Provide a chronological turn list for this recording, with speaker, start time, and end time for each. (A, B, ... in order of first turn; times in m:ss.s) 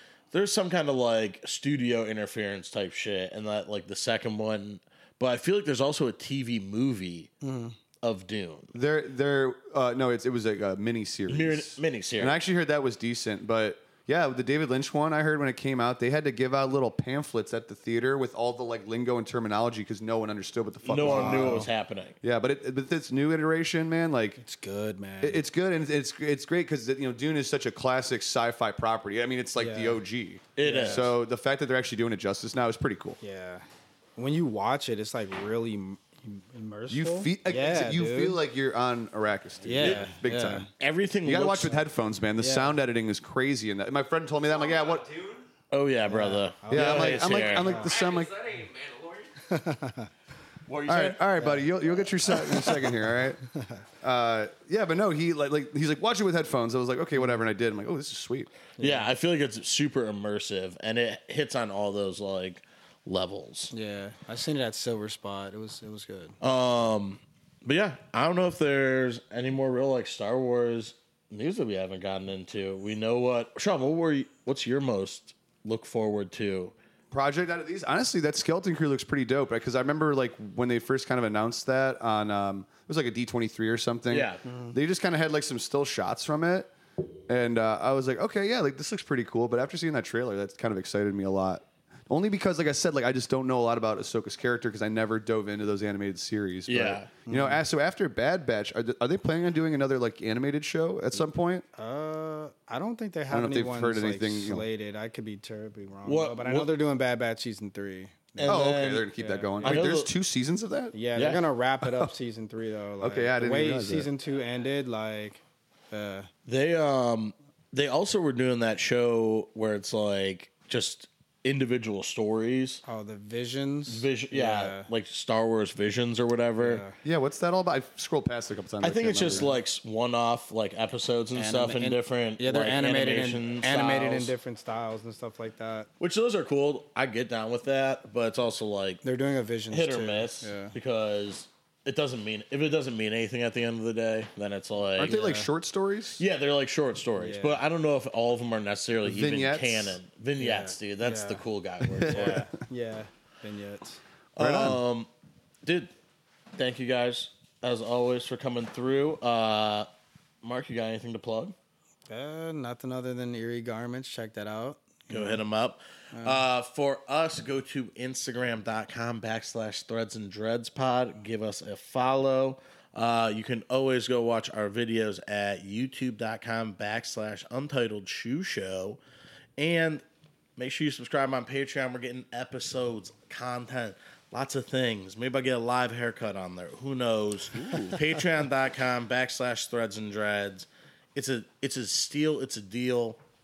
0:00.3-0:07.3 A
0:07.4-0:07.8 B
0:08.0-0:08.7 A
0:08.7-0:21.7 C
0:11.3-0:12.4 A
0:20.8-0:22.2 A
0:21.0-0:21.7 B
0:22.2-0:24.4 C
0:24.4-0:25.4 B
0:25.2-0:33.2 C
0:29.6-0:30.0 B
0:30.6-0:31.1 A
0:30.6-0:31.1 B
0:33.2-0:33.6 B
0:34.2-0:38.4 B
0:36.9-0:40.7 C
0:39.6-0:40.7 B
0:39.8-0:40.1 A
0:40.8-0:41.8 A
0:41.2-0:45.4 C
0:42.4-0:42.8 B
0:45.7-0:47.9 A
0:46.1-0:48.1 B
0:46.7-0:48.7 C
0:49.4-0:50.1 B
0:50.7-0:51.6 A
0:50.9-0:53.4 C
0:51.4-0:51.7 B
0:52.3-0:52.7 A
0:53.6-0:53.8 B
0:54.0-0:58.5 C
0:58.8-0:59.1 B
0:58.8-1:03.7 A
1:03.7-1:06.4 B
1:06.4-1:16.8 A
1:17.1-1:26.7 C
1:24.1-1:24.5 A
1:24.5-1:24.7 B
1:27.3-1:41.6 C
1:36.7-1:37.1 A
1:37.3-1:37.6 B
1:41.8-1:49.9 B
1:43.3-1:44.7 C
1:46.0-1:46.7 A
1:48.4-1:49.1 A
1:48.4-1:51.0 C
1:49.6-1:50.1 A
1:50.9-1:56.3 B
1:51.2-1:51.4 A
1:51.8-1:52.1 C
1:53.0-1:54.1 C
1:56.5-2:02.8 A
2:02.8-2:04.9 B
2:03.9-2:06.8 A
2:06.6-2:07.0 B
2:07.0-2:09.5 C
2:08.8-2:14.4 A
2:09.3-2:09.5 B
2:11.3-2:15.9 B
2:16.0-2:19.0 A
2:19.0-2:20.8 B
2:19.7-2:25.2 A
2:25.0-2:26.2 C
2:25.1-2:25.5 B
2:26.2-2:32.5 A
2:27.2-2:27.6 B
2:29.0-2:30.0 C
2:30.4-2:31.4 B
2:31.8-2:32.4 C
2:32.1-2:34.0 B
2:34.4-2:35.1 A
2:34.4-2:34.8 C
2:35.6-2:35.9 A
2:36.6-2:39.9 A
2:40.4-2:41.6 A
2:42.1-2:45.4 B
2:45.1-2:59.0 A
2:46.1-2:46.4 B
2:59.6-3:00.0 A
3:00.6-3:13.2 A
3:07.5-3:08.0 C